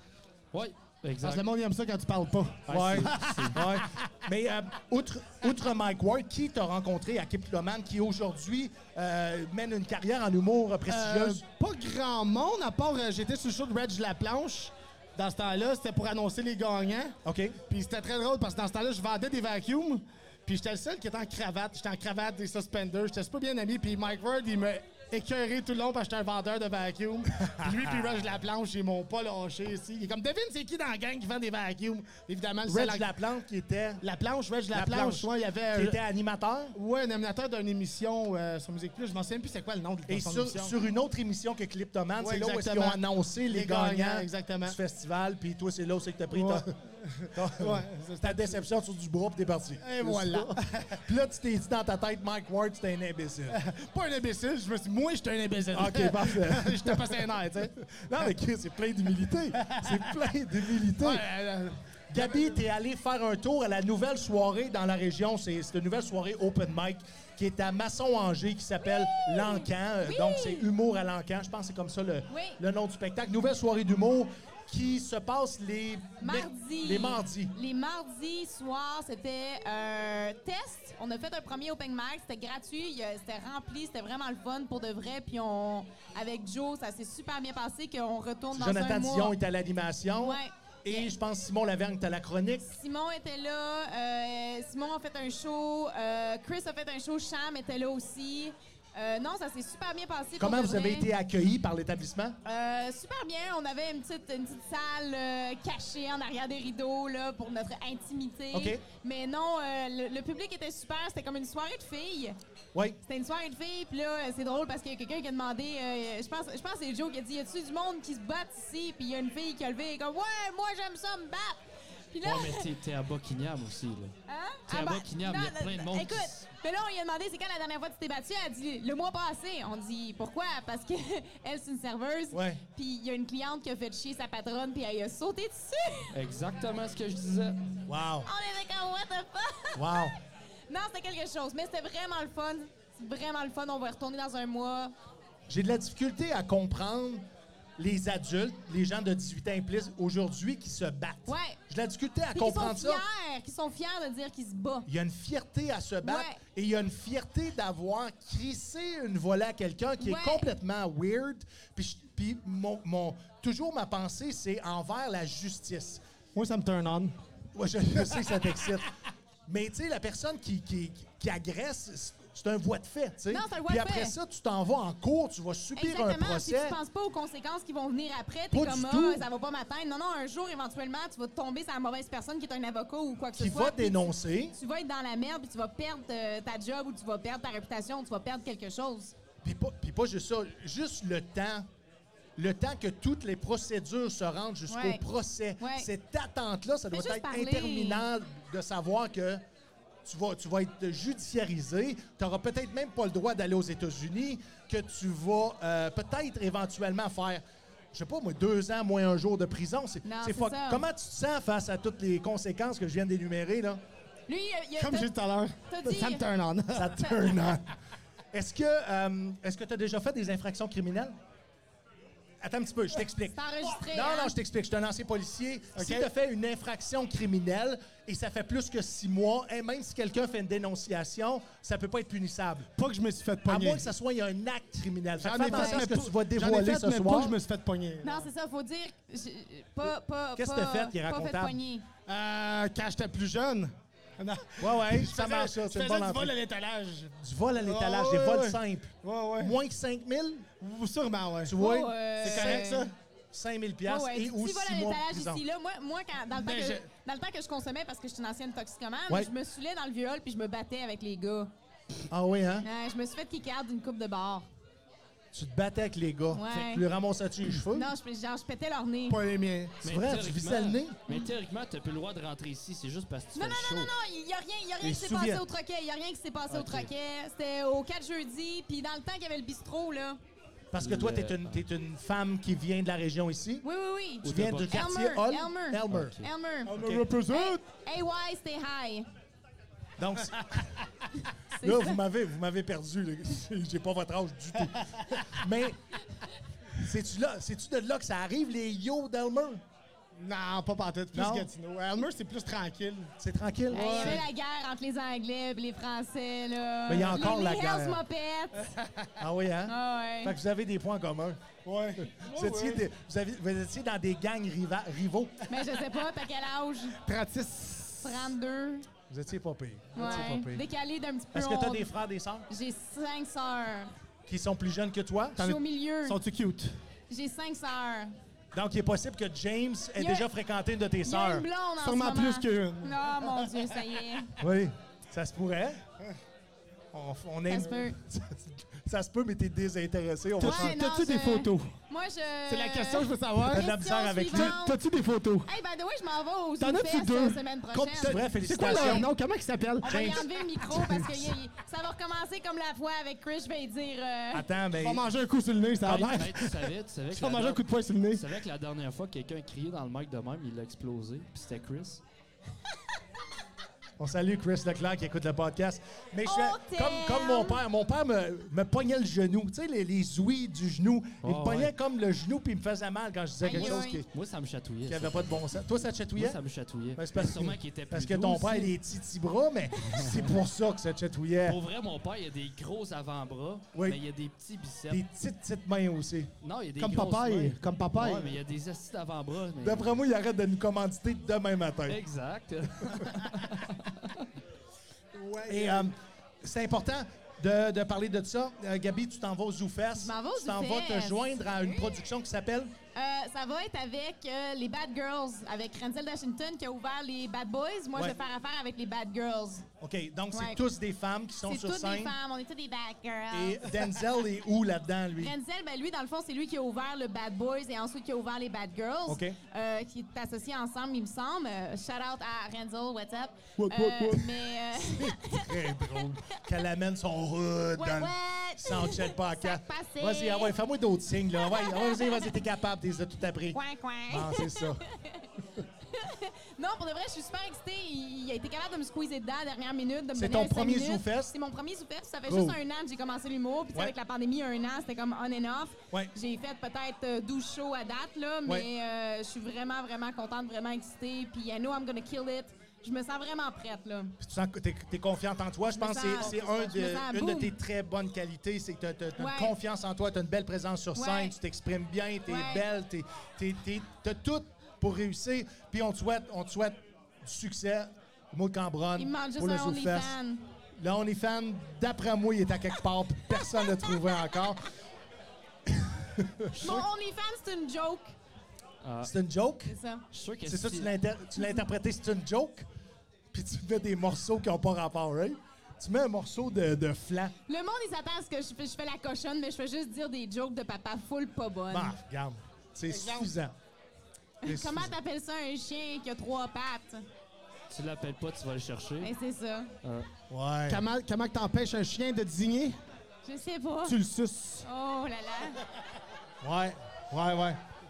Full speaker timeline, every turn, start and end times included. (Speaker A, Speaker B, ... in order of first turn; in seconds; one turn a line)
Speaker A: 0.5-1.4
Speaker B: 1.2-3.9
Speaker A: 2.7-3.6
Speaker C: 2.7-11.4
Speaker B: 10.9-17.1
Speaker C: 17.2-17.6
Speaker B: 17.7-33.0
Speaker C: 27.4-27.9
Speaker C: 32.6-34.0
Speaker B: 34.0-36.0
Speaker C: 34.7-36.8
Speaker B: 36.7-40.7
Speaker C: 40.1-46.7
Speaker B: 42.2-44.8
Speaker B: 46.3-48.6
Speaker C: 47.3-53.6
Speaker B: 49.8-51.0
Speaker B: 53.5-57.7
Speaker C: 55.7-61.2
Speaker B: 59.6-60.1
Speaker B: 60.9-62.5
Speaker C: 62.1-77.5
Speaker D: 68.8-70.7
Speaker D: 72.3-72.6
Speaker D: 76.2-89.3
Speaker C: 88.5-92.7
Speaker D: 90.2-91.1
Speaker D: 92.7-101.1
Speaker C: 100.4-102.4
Speaker D: 102.4-112.4
Speaker C: 108.5-108.8
Speaker D: 113.0-121.6
Speaker D: 122.1-122.7
Speaker A: 122.2-124.1
Speaker D: 124.3-136.1
Speaker A: 124.7-126.4
Speaker C: 132.3-132.6
Speaker A: 136.1-137.8
Speaker C: 137.8-138.3
Speaker D: 138.2-140.1
Speaker C: 139.8-140.1
Speaker D: 140.7-144.9
Speaker C: 145.5-147.2
Speaker C: 147.8-153.0
Speaker D: 151.3-151.6
Speaker D: 152.3-154.9
Speaker C: 154.9-166.0
Speaker D: 156.0-156.4
Speaker D: 160.0-160.5
Speaker B: 166.3-167.1
Speaker C: 167.5-168.9
Speaker C: 169.5-176.8
Speaker D: 173.3-174.1
Speaker D: 175.8-189.1
Speaker C: 178.5-179.2
Speaker C: 183.3-184.6
Speaker C: 189.4-191.6
Speaker C: 192.4-199.4
Speaker D: 194.7-195.0
Speaker D: 195.6-195.9
Speaker D: 196.9-198.0
Speaker C: 200.0-213.8
Speaker D: 210.0-210.8
Speaker D: 214.3-215.1
Speaker B: 214.8-217.1
Speaker D: 215.7-216.2
Speaker C: 216.7-217.7
Speaker C: 218.3-221.2
Speaker C: 222.4-232.7
Speaker D: 223.3-224.3
Speaker B: 225.8-226.1
Speaker B: 232.8-233.9
Speaker C: 233.4-237.4
Speaker B: 235.2-238.3
Speaker D: 235.4-235.8
Speaker D: 238.0-241.8
Speaker C: 240.3-241.6
Speaker B: 242.1-249.5
Speaker C: 244.6-246.3
Speaker C: 247.2-250.5
Speaker B: 250.6-251.6
Speaker C: 251.4-252.7
Speaker D: 251.6-252.9
Speaker B: 252.2-252.9
Speaker C: 253.3-255.4
Speaker D: 253.8-261.5
Speaker B: 256.3-256.9
Speaker C: 262.1-262.7
Speaker D: 262.6-264.5
Speaker C: 265.3-267.9
Speaker D: 266.3-266.8
Speaker D: 267.7-269.2
Speaker B: 269.1-269.8
Speaker C: 269.8-271.0
Speaker A: 269.8-273.9
Speaker D: 273.3-280.2
Speaker C: 274.8-275.4
Speaker A: 276.5-276.9
Speaker C: 280.7-283.6
Speaker A: 280.8-281.6
Speaker D: 283.6-286.7
Speaker A: 284.2-284.8
Speaker C: 284.2-287.0
Speaker A: 285.9-286.2
Speaker B: 286.7-287.6
Speaker D: 287.3-289.1
Speaker C: 290.0-290.7
Speaker D: 291.5-292.0
Speaker C: 291.6-295.8
Speaker C: 296.8-299.6
Speaker B: 300.1-303.1
Speaker C: 301.1-301.5
Speaker C: 303.2-304.2
Speaker B: 303.7-304.2
Speaker D: 303.7-308.7
Speaker C: 306.9-308.0
Speaker C: 309.2-311.4
Speaker D: 309.7-310.3
Speaker B: 311.6-312.8
Speaker C: 312.0-315.4
Speaker D: 315.5-317.0
Speaker B: 317.0-318.3
Speaker D: 318.0-318.9
Speaker C: 319.1-320.6
Speaker D: 319.9-321.9
Speaker B: 320.0-320.3
Speaker C: 321.3-322.5
Speaker D: 322.5-323.9
Speaker C: 324.3-325.6
Speaker D: 325.4-326.2
Speaker B: 325.4-326.8
Speaker D: 327.1-328.1
Speaker C: 328.5-331.4
Speaker D: 330.0-330.3
Speaker D: 331.0-334.3
Speaker B: 331.8-333.6
Speaker C: 334.4-335.8
Speaker C: 336.9-340.8
Speaker D: 337.5-337.9
Speaker B: 340.4-341.7
Speaker D: 340.4-344.8
Speaker B: 342.5-343.7
Speaker C: 343.5-344.6
Speaker B: 344.3-345.5
Speaker D: 345.4-349.1
Speaker B: 346.6-347.4
Speaker C: 347.7-349.1
Speaker B: 348.0-350.9
Speaker D: 349.8-354.4
Speaker C: 349.9-350.2
Speaker C: 354.3-355.0
Speaker B: 354.8-358.2
Speaker C: 355.8-356.2
Speaker A: 355.9-362.0
Speaker C: 364.0-374.1
Speaker D: 366.2-367.6
Speaker A: 371.2-371.7
Speaker D: 373.4-374.0
Speaker A: 373.5-375.3
Speaker C: 374.9-376.4
Speaker A: 376.1-378.7
Speaker C: 376.9-381.6
Speaker A: 381.4-385.0
Speaker C: 383.7-384.0
Speaker C: 384.9-386.3
Speaker A: 386.4-390.0
Speaker B: 386.8-388.3
Speaker C: 389.6-392.0
Speaker A: 391.9-394.2
Speaker B: 395.1-395.9
Speaker C: 395.5-402.7
Speaker D: 400.0-401.9
Speaker D: 402.9-409.6
Speaker C: 409.8-412.1
Speaker D: 410.3-410.6
Speaker D: 411.4-413.7
Speaker C: 413.3-415.3
Speaker D: 415.2-426.4
Speaker C: 419.1-419.4
Speaker B: 423.6-424.3
Speaker C: 424.9-433.6
Speaker D: 427.8-430.5
Speaker D: 431.4-432.3
Speaker D: 433.5-435.3
Speaker C: 434.1-434.8
Speaker D: 435.9-454.2
Speaker C: 440.1-441.3
Speaker C: 442.3-442.6
Speaker C: 454.2-470.1
Speaker D: 455.7-457.5
Speaker D: 459.2-459.5
Speaker D: 460.9-461.3
Speaker D: 462.3-462.6
Speaker D: 469.0-470.4
Speaker C: 470.8-474.6
Speaker D: 473.6-473.8
Speaker C: 475.7-476.8
Speaker D: 476.6-478.1
Speaker A: 478.8-479.1
Speaker C: 479.0-479.7
Speaker D: 479.7-480.0
Speaker A: 480.1-480.9
Speaker C: 480.4-482.6
Speaker C: 483.3-487.3
Speaker D: 487.5-491.9
Speaker C: 491.7-493.5
Speaker B: 492.9-493.3
Speaker C: 494.4-494.9
Speaker D: 494.4-497.0
Speaker A: 497.7-499.1
Speaker D: 499.0-499.7
Speaker C: 500.3-500.8
Speaker B: 500.7-502.8
Speaker D: 503.2-504.0
Speaker B: 503.8-504.6
Speaker D: 504.6-505.6
Speaker C: 506.4-507.6